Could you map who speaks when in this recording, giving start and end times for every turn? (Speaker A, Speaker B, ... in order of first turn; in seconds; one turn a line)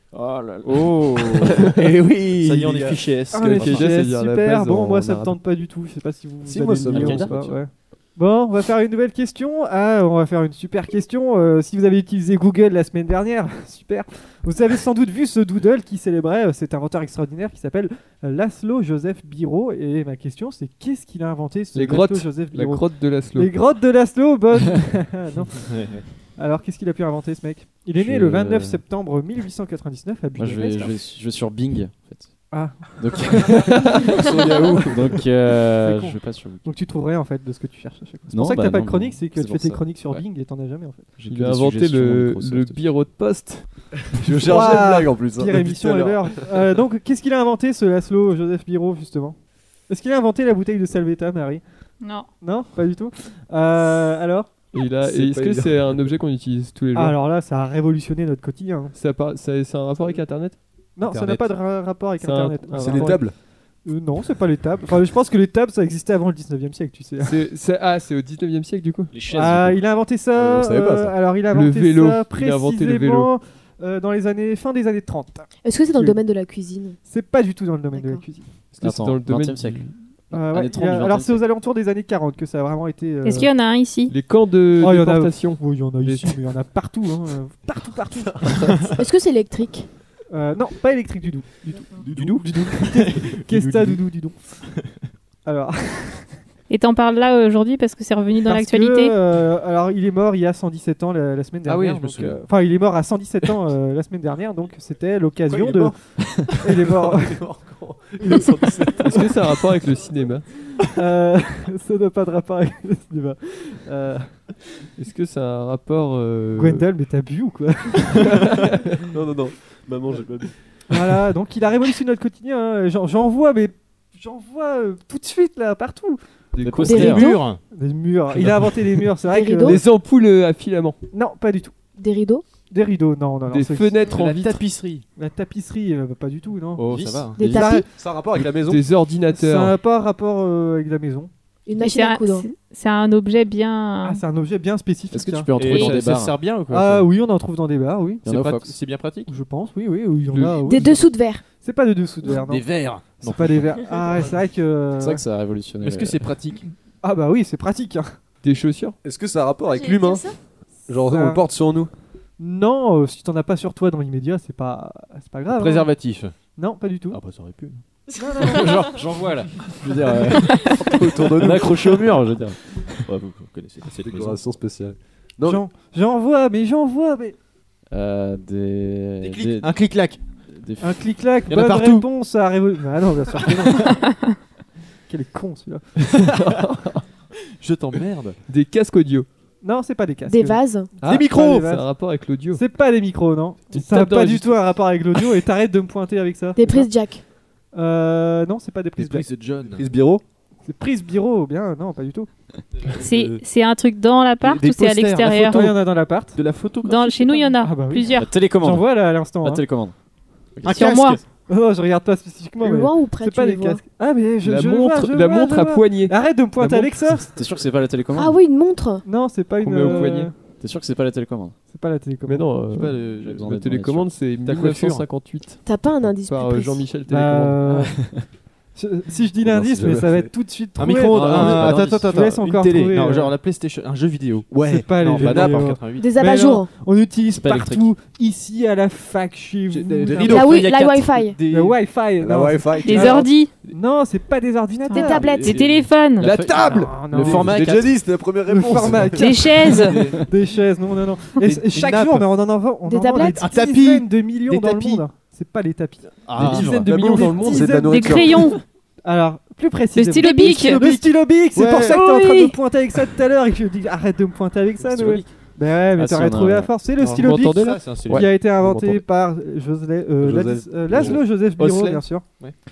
Speaker A: 0.1-1.7
Speaker B: 0.7-3.9
Speaker C: 1.7-3.9
Speaker D: 3.3-25.8
Speaker E: 3.4-5.4
Speaker C: 6.4-7.4
Speaker A: 6.9-7.6
Speaker E: 21.7-23.6
Speaker B: 25.7-26.1
Speaker D: 26.4-30.9
Speaker A: 28.0-28.8
Speaker A: 30.4-36.7
Speaker D: 32.5-34.2
Speaker C: 34.0-35.2
Speaker D: 35.8-41.1
Speaker A: 38.3-40.2
Speaker A: 41.2-42.9
Speaker E: 41.3-43.6
Speaker C: 44.1-46.5
Speaker D: 44.4-49.4
Speaker D: 49.9-51.6
Speaker F: 52.0-52.3
Speaker D: 52.4-54.5
Speaker E: 54.7-57.2
Speaker C: 55.0-55.8
Speaker D: 56.9-59.0
Speaker E: 58.9-60.6
Speaker D: 61.0-67.4
Speaker A: 61.1-61.4
Speaker E: 62.2-63.3
Speaker C: 62.8-63.4
Speaker E: 67.2-69.1
Speaker A: 69.1-69.8
Speaker B: 69.3-69.5
Speaker D: 69.3-76.2
Speaker C: 70.3-71.2
Speaker E: 71.5-73.3
Speaker G: 75.7-77.0
Speaker D: 77.0-78.5
Speaker G: 77.9-78.2
Speaker E: 78.7-80.0
Speaker A: 78.8-81.4
Speaker D: 80.3-83.5
Speaker F: 83.2-84.1
Speaker E: 84.1-86.4
Speaker D: 84.8-88.8
Speaker G: 88.9-89.9
Speaker D: 90.3-94.4
Speaker B: 92.0-94.0
Speaker D: 95.5-96.3
Speaker F: 96.7-99.2
Speaker D: 98.4-107.4
Speaker B: 101.7-102.4
Speaker C: 105.5-106.0
Speaker C: 106.9-109.3
Speaker E: 109.0-110.5
Speaker D: 110.9-114.4
Speaker E: 115.0-116.9
Speaker D: 116.6-118.4
Speaker C: 119.0-120.5
Speaker D: 120.9-126.2
Speaker E: 126.5-127.3
Speaker A: 126.6-127.4
Speaker G: 126.9-127.5
Speaker B: 126.9-127.6
Speaker D: 127.7-129.8
Speaker B: 128.3-129.1
Speaker G: 129.2-129.8
Speaker E: 129.6-131.0
Speaker D: 131.1-131.8
Speaker G: 131.9-132.5
Speaker D: 132.7-134.0
Speaker E: 133.5-134.7
Speaker B: 134.1-135.1
Speaker D: 135.2-137.9
Speaker B: 136.8-137.4
Speaker A: 136.9-137.8
Speaker G: 137.4-137.9
Speaker C: 137.9-138.8
Speaker E: 138.4-139.8
Speaker D: 139.3-141.3
Speaker G: 141.7-142.5
Speaker F: 141.8-144.2
Speaker D: 144.0-145.5
Speaker A: 145.1-146.4
Speaker B: 145.6-147.1
Speaker D: 146.7-148.2
Speaker B: 148.2-149.3
Speaker A: 148.2-148.8
Speaker D: 149.3-155.2
Speaker E: 150.3-150.9
Speaker G: 150.7-151.4
Speaker B: 152.2-153.7
Speaker A: 155.0-156.2
Speaker B: 155.8-156.7
Speaker D: 157.0-158.2
Speaker E: 158.4-159.0
Speaker C: 159.0-160.3
Speaker G: 159.7-160.4
Speaker C: 160.9-161.9
Speaker D: 160.9-161.4
Speaker D: 162.4-165.9
Speaker B: 165.5-166.3
Speaker D: 166.6-167.2
Speaker B: 167.1-167.8
Speaker D: 168.2-168.8
Speaker G: 168.2-168.5
Speaker A: 168.4-173.0
Speaker C: 170.7-172.0
Speaker B: 173.0-174.4
Speaker C: 174.0-175.6
Speaker D: 175.4-177.3
Speaker A: 177.9-179.7
Speaker B: 179.2-180.2
Speaker A: 180.5-181.0
Speaker D: 180.8-183.9
Speaker B: 181.5-182.1
Speaker B: 183.4-183.9
Speaker D: 185.1-186.2
Speaker E: 186.1-187.0
Speaker B: 187.6-188.4
Speaker E: 188.5-189.3
Speaker D: 189.6-191.9
Speaker G: 190.3-190.9
Speaker E: 191.0-192.6
Speaker D: 192.5-196.9
Speaker E: 193.7-194.7
Speaker G: 196.6-197.2
Speaker D: 197.7-199.3
Speaker B: 199.0-199.9
Speaker C: 199.7-200.2
Speaker D: 200.7-202.3
Speaker B: 202.8-203.4
Speaker F: 203.0-205.8
Speaker D: 204.4-206.4
Speaker B: 206.3-207.5
Speaker F: 206.8-208.4
Speaker D: 207.6-209.6
Speaker A: 208.2-209.9
Speaker A: 210.6-211.2
Speaker B: 210.6-211.2
Speaker F: 210.7-211.2
Speaker D: 211.5-217.3
Speaker G: 212.6-213.8
Speaker E: 214.4-217.3
Speaker A: 217.3-218.4
Speaker G: 218.2-219.0
Speaker D: 219.0-220.3
Speaker E: 219.6-220.3
Speaker A: 220.6-221.6
Speaker D: 221.7-222.5
Speaker E: 222.3-227.9
Speaker B: 222.7-223.5
Speaker A: 223.1-225.0
Speaker B: 224.5-225.0
Speaker G: 225.6-226.9
Speaker D: 227.1-233.3
Speaker C: 229.4-230.3
Speaker B: 230.8-236.1
Speaker A: 231.1-232.1
Speaker C: 234.5-235.7
Speaker D: 234.6-240.6
Speaker G: 236.0-236.7
Speaker A: 237.3-237.9
Speaker B: 239.7-241.8
Speaker C: 240.2-240.5
Speaker G: 240.2-241.4
Speaker D: 241.5-245.3
Speaker C: 242.2-243.3
Speaker F: 242.8-243.5
Speaker F: 244.9-246.3
Speaker G: 244.9-245.6
Speaker B: 245.2-247.7
Speaker A: 246.2-248.0
Speaker C: 246.2-249.6
Speaker D: 246.7-247.6
Speaker D: 248.5-258.2
Speaker F: 249.2-250.0
Speaker B: 249.7-250.2
Speaker B: 251.4-252.3
Speaker G: 252.8-253.6
Speaker B: 253.4-255.0
Speaker B: 256.2-256.9
Speaker A: 256.4-256.7
Speaker E: 256.4-257.9
Speaker C: 256.9-258.6
Speaker F: 257.7-258.6
Speaker D: 259.1-272.2
Speaker F: 259.9-261.2
Speaker B: 261.5-262.0
Speaker F: 261.9-262.5
Speaker A: 264.8-265.3
Speaker A: 265.9-266.7
Speaker B: 267.0-268.2
Speaker E: 267.1-268.4
Speaker C: 270.2-271.2
Speaker B: 270.9-272.6